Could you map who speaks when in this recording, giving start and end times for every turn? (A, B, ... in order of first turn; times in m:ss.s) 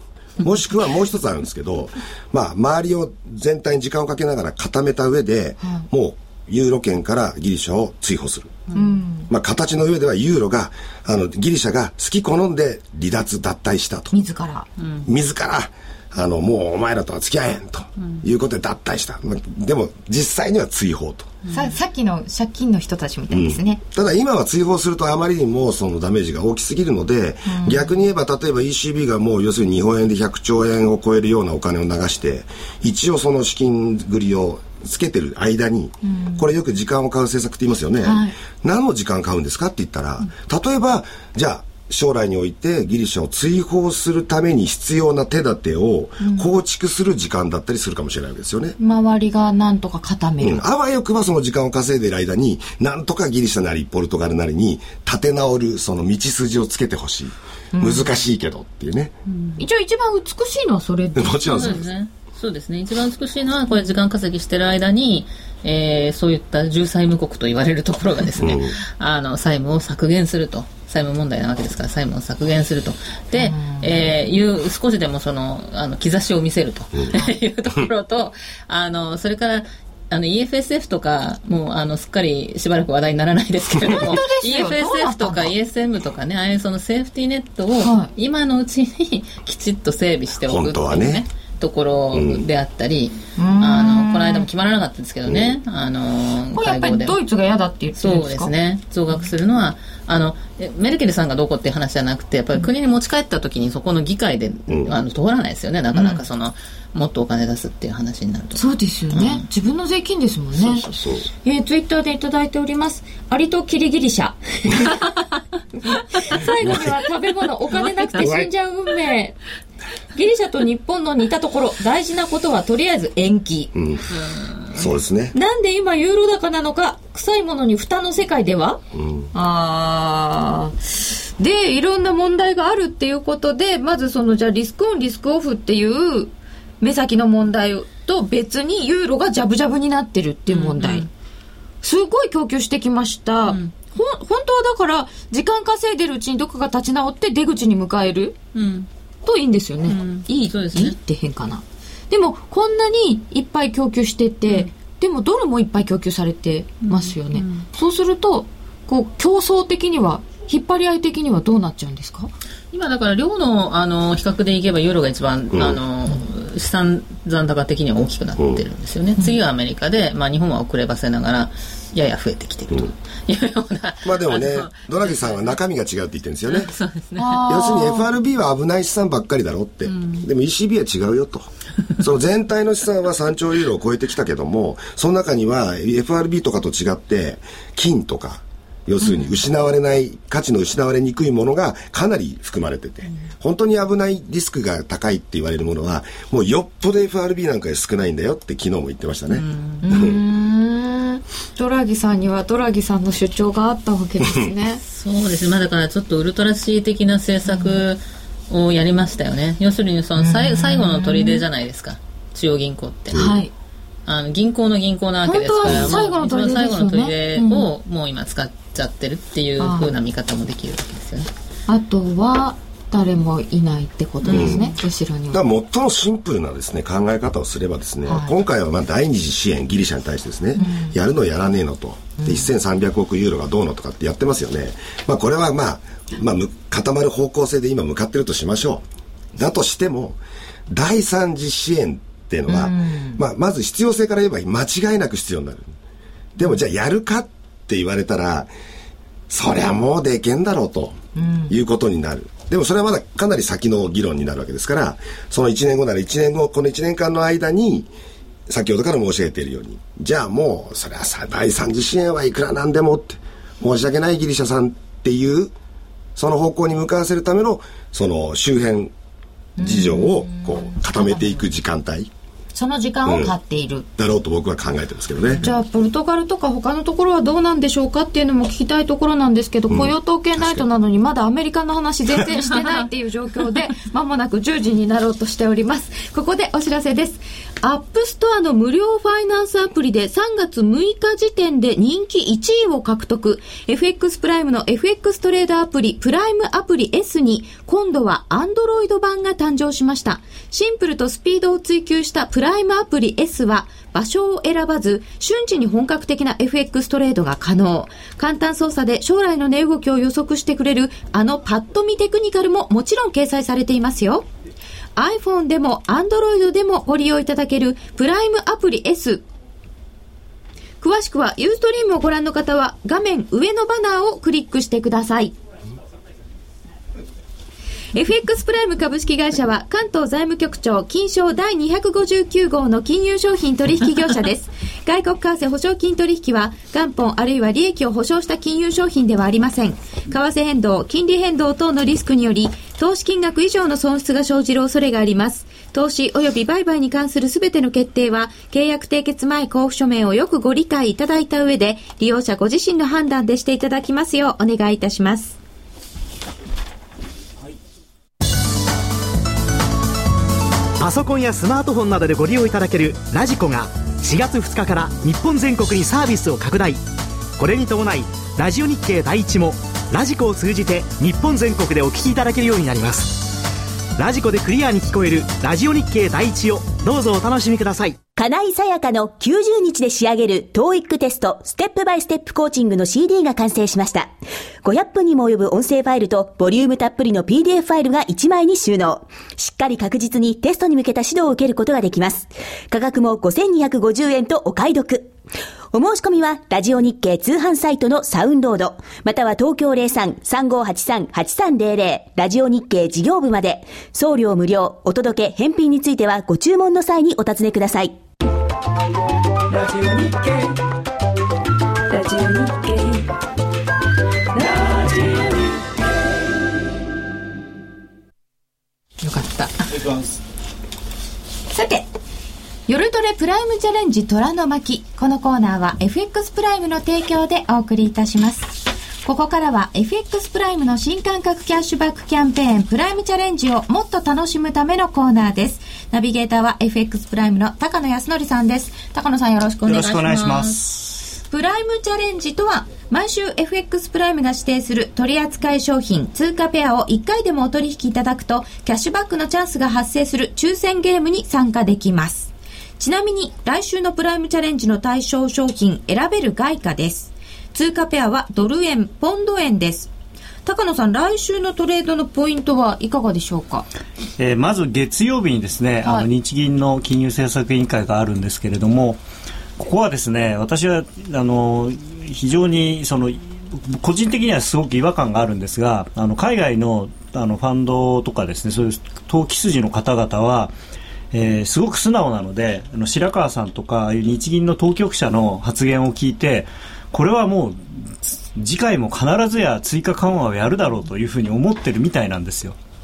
0:00.4-0:08.6 A
0:08.7-0:09.3 B
0:09.3-0:14.1 A
0:14.1-0:14.7 B
0:14.8-0:15.0 C
0:15.0-0:21.4 A
0:21.4-0:21.7 C
0:21.5-0:23.8 B
0:23.3-0:48.8 A
0:27.5-0:27.9 B
0:36.0-0:36.5 B
0:38.0-0:38.4 B
0:46.2-0:46.5 B
0:48.8-0:50.6 B
0:50.4-0:59.2 A
0:57.7-0:58.1 B
0:59.3-0:59.6 C
0:59.6-1:01.8 B
1:01.2-1:01.9 A
1:01.5-1:37.2 C
1:08.4-1:08.8 A
1:13.3-1:14.1 B
1:23.9-1:25.5 B
1:27.8-1:28.1 B
1:30.5-1:31.2 A
1:32.1-1:32.5 A
1:33.4-1:34.5 B
1:35.3-1:35.6 A
1:36.6-1:38.5 B
1:38.0-1:49.4 C
1:44.7-1:45.0 A
1:45.9-1:46.2 B
1:48.6-1:50.8 B
1:50.6-1:51.3 A
1:51.4-1:55.1 B
1:55.8-1:59.4 B
1:57.8-1:58.3 C
1:58.2-1:58.5 A
2:00.2-2:03.8 B
2:03.8-2:04.1 A
2:04.2-2:04.8 C
2:04.7-2:05.4 A
2:05.3-2:08.8 B
2:08.9-2:09.3 A
2:09.3-2:10.8 B
2:11.4-2:21.1 B
2:20.5-2:21.1 C
2:21.8-2:28.4 B
2:23.5-2:23.7 C
2:28.6-2:28.9 C
2:29.2-2:42.3 B
2:29.9-2:31.0 C
2:36.8-2:37.7 C
2:42.7-2:55.4 C
2:45.5-2:45.8 A
2:48.4-2:48.6 A
2:54.0-2:56.7 A
2:56.5-2:57.5 C
2:57.2-2:58.1 B
2:57.4-3:01.5 A
2:59.8-3:00.3 C
3:02.0-3:20.2 A
3:19.3-3:19.9 C
3:19.8-3:24.8 B
3:24.9-3:33.3 C
3:27.5-3:27.8 B
3:30.2-3:31.4 B
3:33.1-3:33.5 B
3:34.1-3:41.3 C
3:35.2-3:37.7 B
3:35.7-3:35.9 A
3:39.6-3:39.9 B
3:41.7-3:45.4 B
3:44.2-3:44.8 C
3:44.3-3:44.7 A
3:45.3-4:05.7 A
3:48.1-3:48.3 B
3:50.6-3:51.0 B
3:52.2-3:52.5 B
4:02.5-4:03.2 B
4:06.4-4:08.5 A
4:09.3-4:17.9 A
4:11.2-4:11.6 B
4:18.5-4:25.5 A
4:26.2-4:28.9 A
4:29.6-4:31.4 B
4:29.6-4:32.1 A
4:32.5-4:33.9 B
4:33.0-4:33.4 A
4:34.0-4:35.5 A
4:35.4-5:14.3 B
4:39.7-4:40.6 A
5:15.0-5:19.2 B
5:20.8-5:25.3 B
5:27.9-5:55.4 B
6:00.8-6:06.8 D
6:07.4-6:13.3 D
6:14.0-6:18.0 D
6:18.2-6:24.1 E
6:24.6-6:35.1 E
6:35.7-6:48.0 E
6:49.5-6:50.3 B
6:51.9-6:52.9 B
6:54.4-6:55.2 B
6:59.0-6:59.5 C
7:01.5-7:01.9 B
7:02.7-7:20.6 B
7:19.6-7:21.1 F
7:21.3-7:39.9 B
7:40.4-7:43.7 B
7:44.2-7:49.0 F
7:45.8-7:46.1 B
7:49.6-8:00.6 F
8:01.1-8:12.6 F